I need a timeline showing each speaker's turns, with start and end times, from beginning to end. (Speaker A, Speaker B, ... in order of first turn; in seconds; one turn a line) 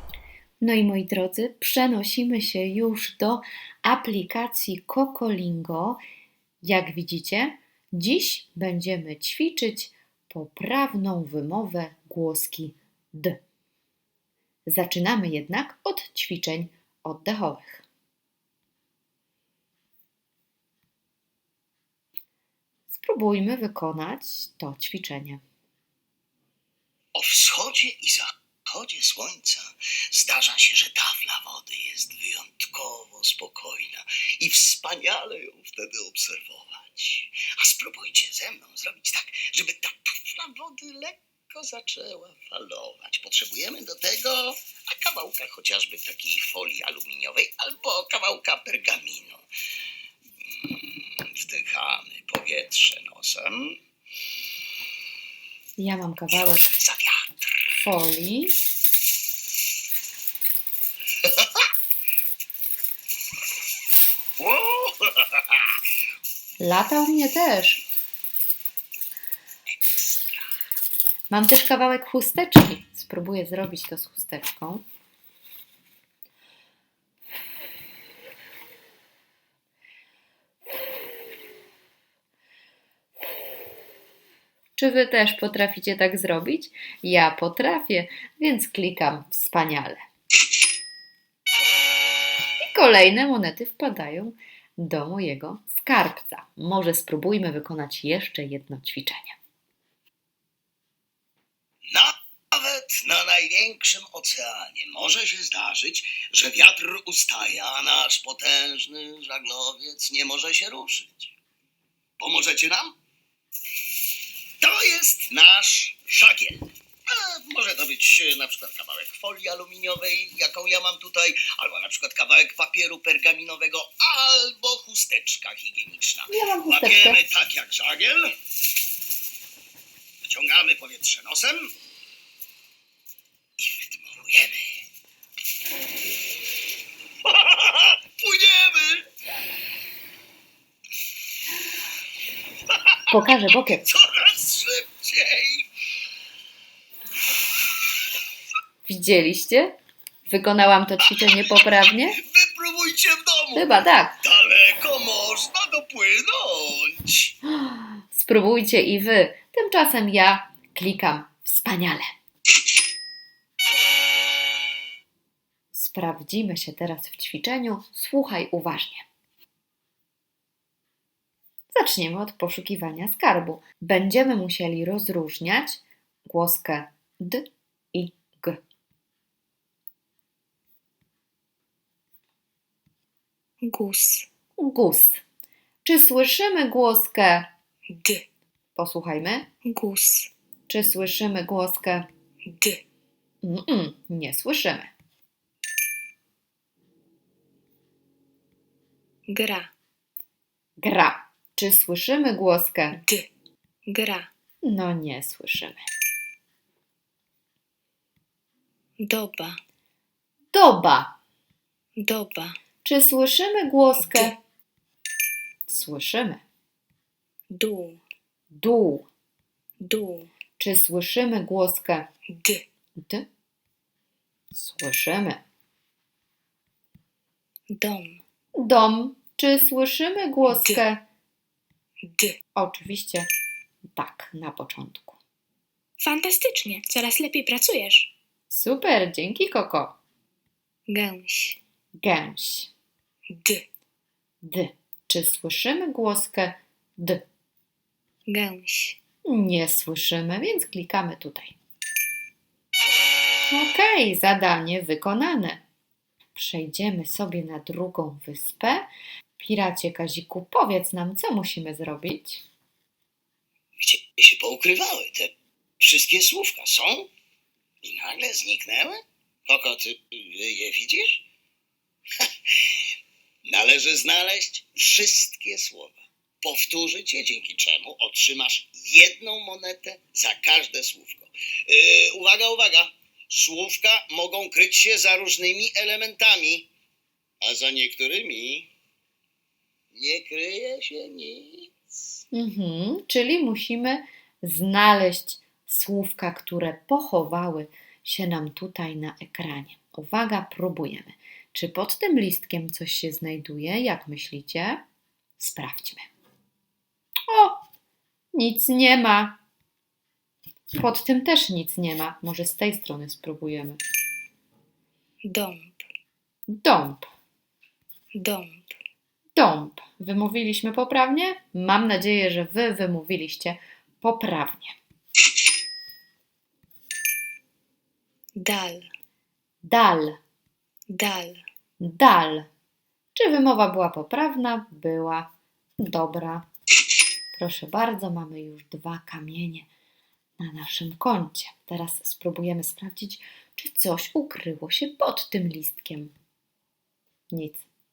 Speaker A: 0.6-6.0
Speaker A: 6.6-13.4
Speaker A: 14.7-17.9
Speaker A: 22.9-25.4
Speaker B: 27.1-49.4
Speaker B: 50.5-53.8
Speaker A: 55.8-56.8
Speaker B: 56.8-57.3
Speaker A: 57.7-58.6
Speaker B: 64.4-65.6
Speaker A: 66.6-67.9
Speaker A: 71.3-74.8
Speaker A: 84.8-90.0
Speaker A: 92.6-99.4
Speaker B: 101.9-111.3
Speaker B: 112.2-113.0
Speaker B: 114.6-128.3
Speaker A: 126.3-127.2
Speaker B: 130.2-131.7
Speaker B: 133.6-134.8
Speaker B: 137.2-139.1
Speaker A: 143.1-143.9
Speaker B: 143.8-145.7
Speaker A: 148.9-149.7
Speaker A: 150.3-152.2
Speaker B: 152.2-157.3
Speaker A: 153.6-154.2
Speaker A: 157.5-162.1
Speaker A: 165.7-169.1
Speaker A: 171.7-178.6
Speaker C: 183.6-184.3
Speaker A: 184.6-185.2
Speaker A: 185.8-187.5
Speaker C: 187.9-188.2
Speaker A: 188.8-189.5
Speaker C: 189.7-190.3
Speaker A: 190.7-192.1
Speaker C: 192.5-192.8
Speaker A: 193.4-194.9
Speaker C: 199.3-199.7
Speaker A: 200.8-203.0
Speaker C: 202.9-203.3
Speaker C: 203.9-204.3
Speaker A: 204.6-205.9
Speaker C: 209.0-209.6
Speaker A: 210.5-211.2
Speaker C: 212.0-212.6
Speaker A: 212.8-214.4
Speaker C: 214.0-214.3
Speaker A: 215.7-216.4
Speaker C: 217.5-218.0
Speaker A: 218.5-219.1
Speaker C: 219.8-220.3
Speaker A: 220.6-222.1
Speaker C: 222.3-222.6
Speaker A: 223.0-223.3
Speaker A: 224.5-225.4
Speaker C: 227.7-228.2
Speaker A: 228.6-231.0
Speaker C: 230.5-230.8
Speaker C: 232.0-232.4
Speaker A: 232.6-233.3
Speaker A: 233.9-235.2
Speaker C: 236.0-238.1
Speaker A: 238.5-240.0
Speaker C: 240.9-241.6
Speaker A: 242.0-242.7
Speaker C: 243.3-243.6
Speaker A: 244.4-247.2
Speaker C: 248.3-249.0
Speaker A: 249.3-251.6
Speaker A: 253.5-255.6
Speaker A: 256.4-262.4
Speaker B: 263.8-267.1
Speaker B: 267.8-271.2
Speaker B: 272.2-272.8
Speaker B: 273.4-286.7
Speaker B: 287.4-288.7
Speaker B: 289.9-291.7
Speaker A: 292.3-304.8
Speaker A: 305.4-306.1
Speaker A: 307.3-307.6
Speaker A: 308.3-309.4
Speaker A: 310.7-313.8
Speaker C: 315.3-315.9
Speaker A: 316.5-317.1
Speaker C: 318.1-318.8
Speaker A: 319.4-324.8
Speaker C: 328.4-328.9
Speaker A: 329.6-330.2
Speaker C: 330.9-331.4
Speaker A: 331.8-332.5
Speaker A: 333.1-336.4
Speaker A: 337.3-339.7
Speaker A: 340.4-346.1
Speaker A: 347.3-347.7